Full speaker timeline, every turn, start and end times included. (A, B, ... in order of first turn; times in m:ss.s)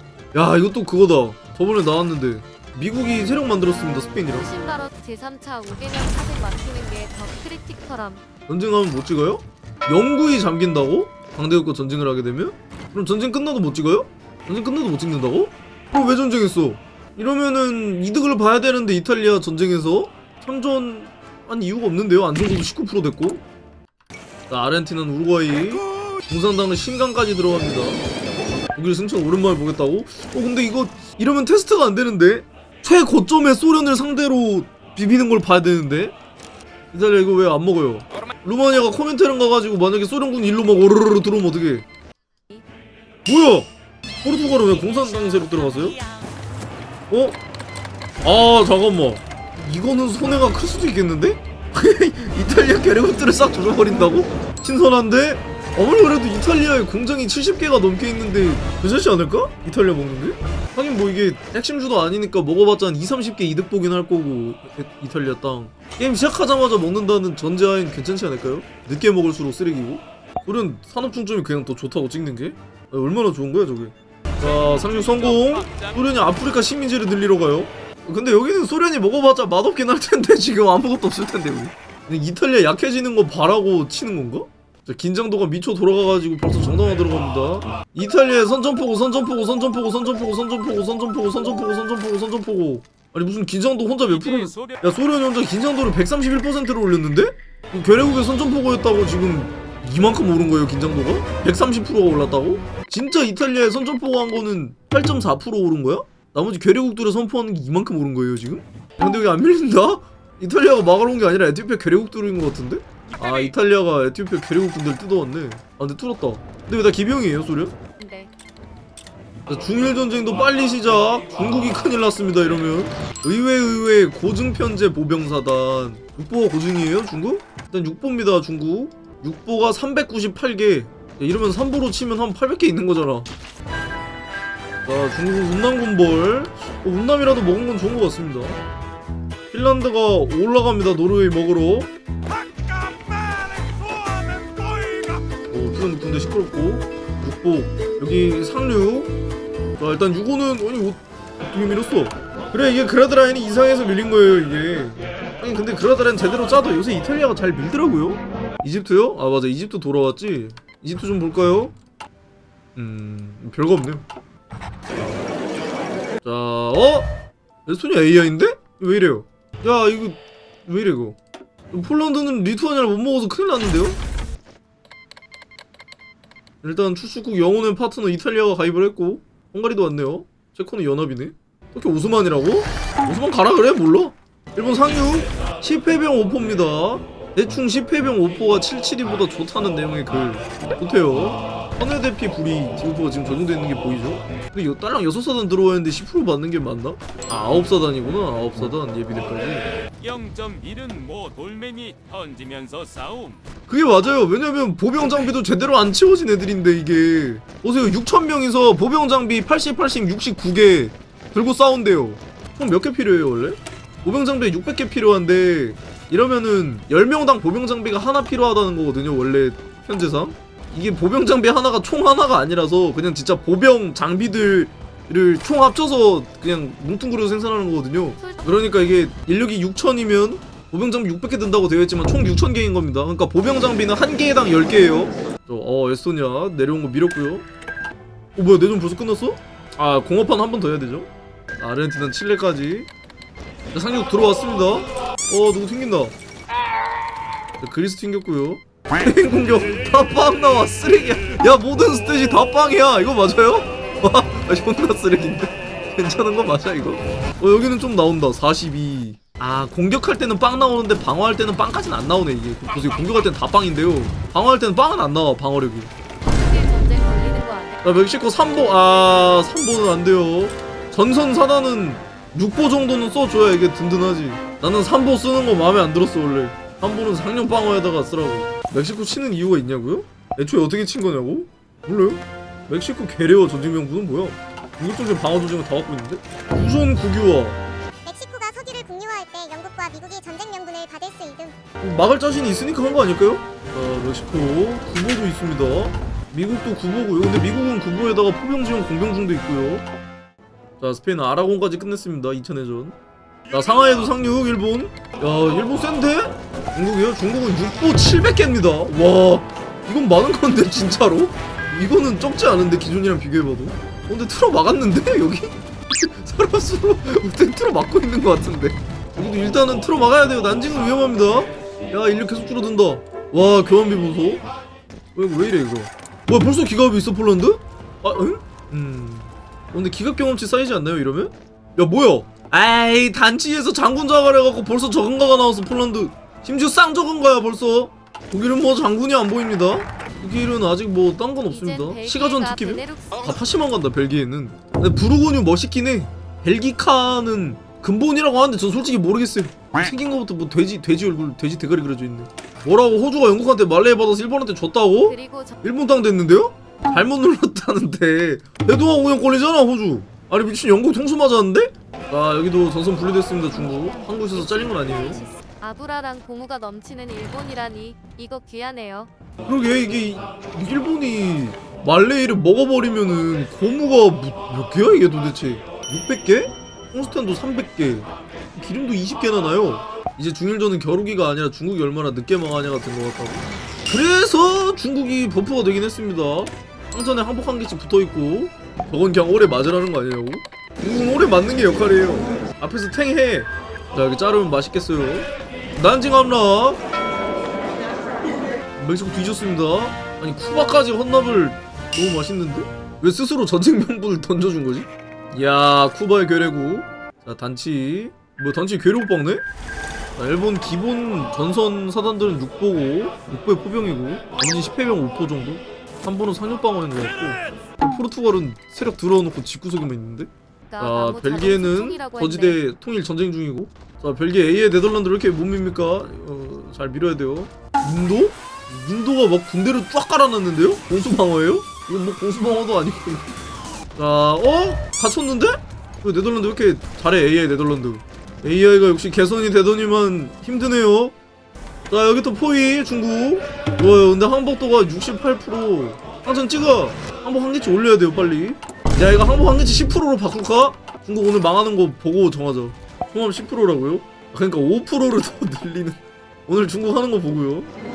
0:00.3-0:04.5 A
0:04.4-0:08.2 B
0:08.5-0:23.4 A
0:24.5-0:28.0 A
0:28.8-0:36.2 A
0:36.9-0:41.9 A
0:43.3-0:43.7 A
0:44.2-0:46.0 A
0:47.1-0:47.4 A
0:48.2-1:57.8 A
1:14.6-1:16.0 C
1:34.0-1:34.8 C
1:58.0-1:58.3 B
1:59.5-2:13.3 A
2:14.8-2:18.6 A
2:19.5-2:21.9 A
2:25.5-2:29.1 A
2:29.8-2:41.7 A
2:42.8-2:44.0 A
2:46.2-2:47.1 A
2:47.7-2:51.2 A
2:51.7-2:54.0 A
2:56.6-3:19.7 A
3:20.0-3:23.4 C
3:23.7-3:57.5 A
3:48.2-3:48.5 B
3:58.4-4:02.9 A
4:03.7-4:06.1 A
4:07.6-4:25.9 A
4:26.3-4:27.8 B
4:27.8-4:47.6 A
4:48.1-4:51.6 D
4:51.8-4:59.8 A
5:00.8-5:03.0 A
5:03.5-5:24.4 A
5:25.2-6:05.2 A
5:41.5-5:43.4 B
5:55.1-5:55.6 B
6:03.5-6:09.1 B
6:09.5-6:36.8 A
6:38.8-6:49.4 A
6:50.2-7:13.3 A
7:00.7-7:02.6 B
7:14.0-7:21.2 A
7:21.9-7:37.7 A